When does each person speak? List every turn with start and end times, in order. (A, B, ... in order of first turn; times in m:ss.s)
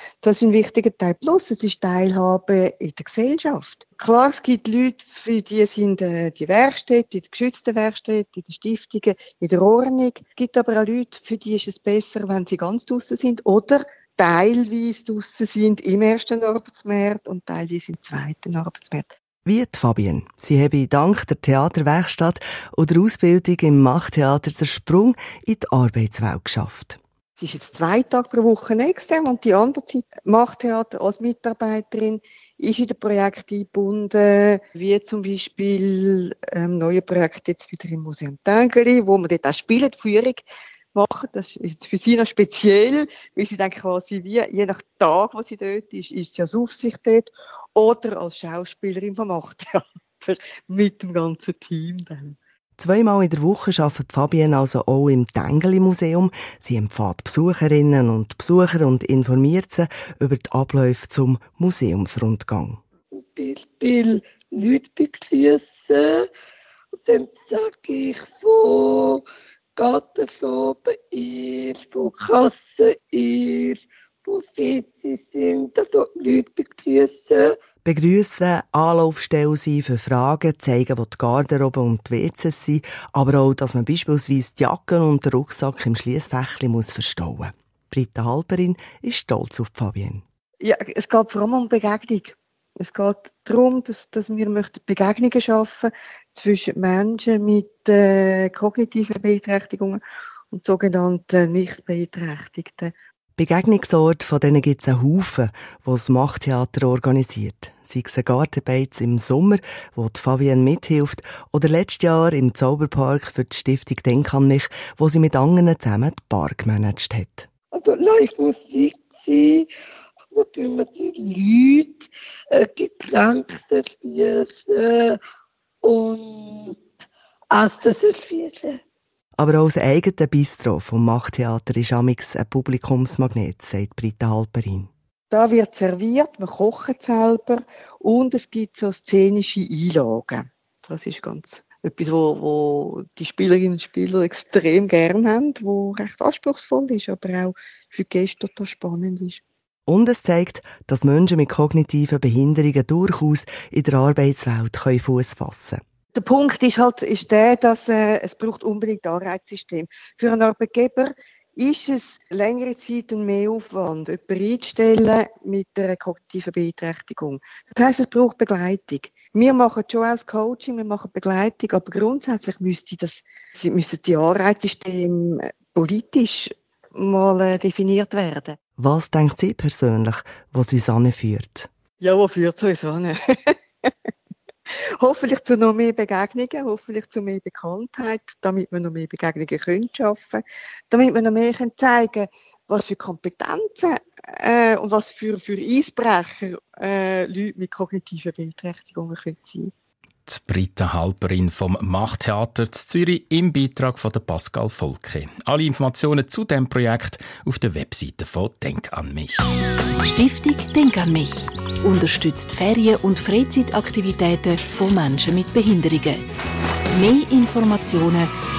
0:00.2-0:19.1 A
0:19.4-0:27.0 B
0:27.4-0:52.4 A
0:52.8-1:02.8 B
1:03.1-1:06.3 C
1:07.0-1:09.2 C
1:09.8-1:17.6 C
1:17.8-1:30.2 B
1:30.6-1:40.0 A
1:40.5-1:42.9 A
1:43.4-1:57.5 B
1:57.7-1:59.7 C
2:00.3-2:05.2 C
2:05.8-2:06.8 C
2:07.5-2:08.8 C
2:09.4-2:14.9 B
2:15.3-2:29.4 A
2:29.9-2:35.8 B
2:36.1-2:58.6 A
2:58.8-3:01.7 B
3:02.0-3:03.9 A
3:05.0-3:19.7 A
3:20.3-3:29.4 D
3:30.0-3:36.2 E
3:36.9-3:38.3 E